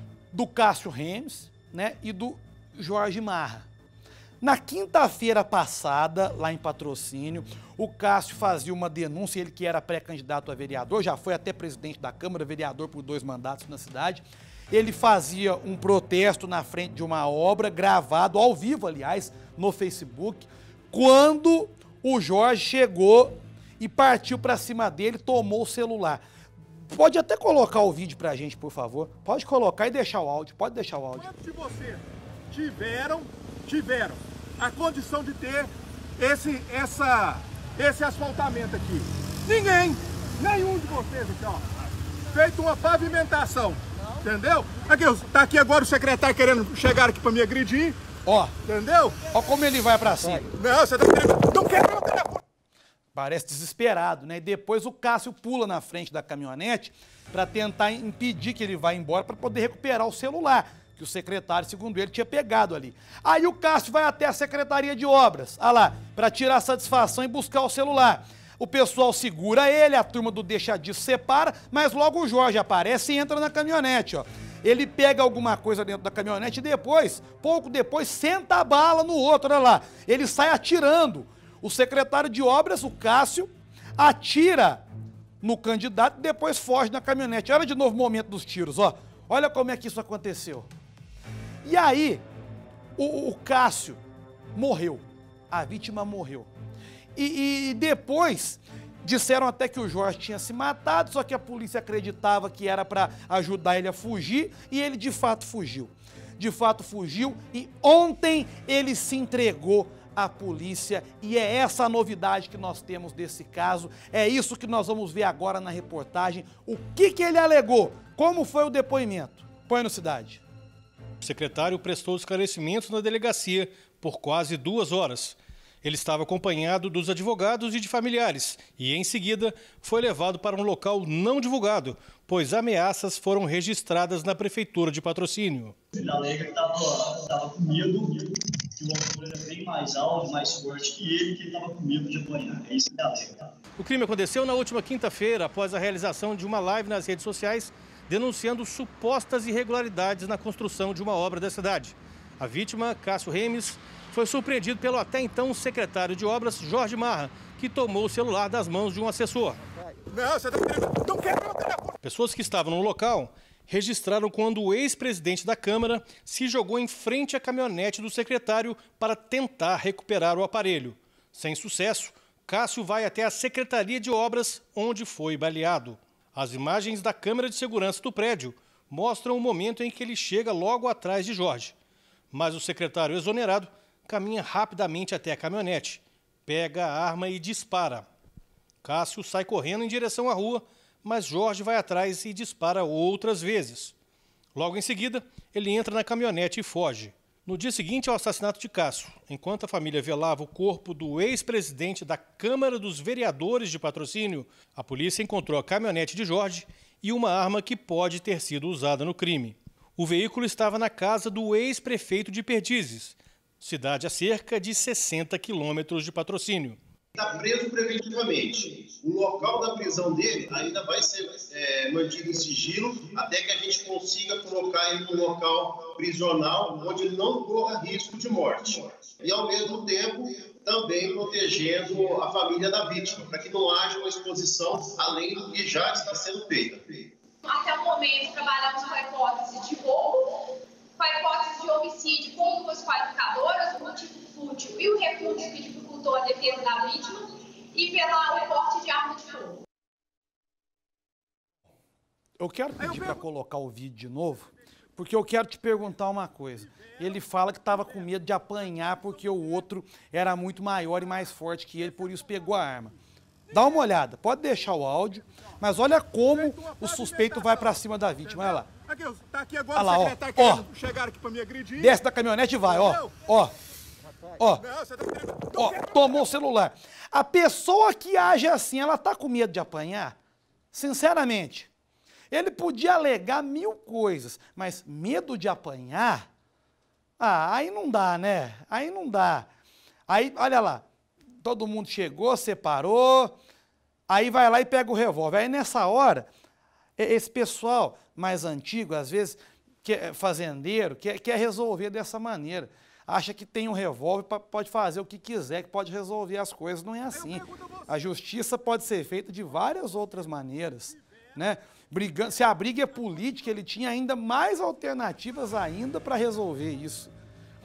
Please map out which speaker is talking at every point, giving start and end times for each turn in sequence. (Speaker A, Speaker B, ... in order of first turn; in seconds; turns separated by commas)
Speaker A: 0.3-3.7, Speaker A: 4.4-26.2, Speaker A: 26.9-31.3, Speaker B: 31.1-41.6, Speaker B: 42.3-48.0, Speaker A: 48.2-48.5, Speaker B: 48.6-49.2, Speaker A: 49.2-50.5, Speaker B: 50.5-52.4, Speaker A: 53.1-84.8, Speaker A: 85.4-90.7, Speaker A: 91.6-92.2, Speaker A: 93.0-94.0, Speaker A: 94.5-96.5, Speaker A: 97.2-120.4, Speaker C: 121.2-135.8, Speaker D: 135.9-143.5, Speaker C: 143.8-159.6, Speaker B: 160.1-161.9, Speaker C: 162.0-181.8, Speaker C: 182.3-188.1, Speaker C: 188.8-193.9, Speaker C: 194.5-216.8, Speaker E: 217.1-237.1, Speaker F: 237.4-249.6, Speaker A: 252.4-262.9, Speaker B: 252.8-253.2, Speaker B: 263.5-263.8, Speaker A: 263.5-268.7, Speaker B: 266.3-272.0, Speaker A: 269.7-270.6, Speaker A: 271.8-273.5, Speaker B: 272.6-273.1, Speaker A: 274.4-274.6, Speaker B: 274.6-276.2, Speaker A: 275.5-280.2, Speaker A: 280.7-281.7, Speaker A: 282.3-286.2, Speaker A: 287.2-289.5, Speaker A: 290.1-290.8, Speaker A: 291.4-293.4, Speaker A: 294.1-296.3, Speaker A: 297.0-317.1, Speaker B: 307.1-307.9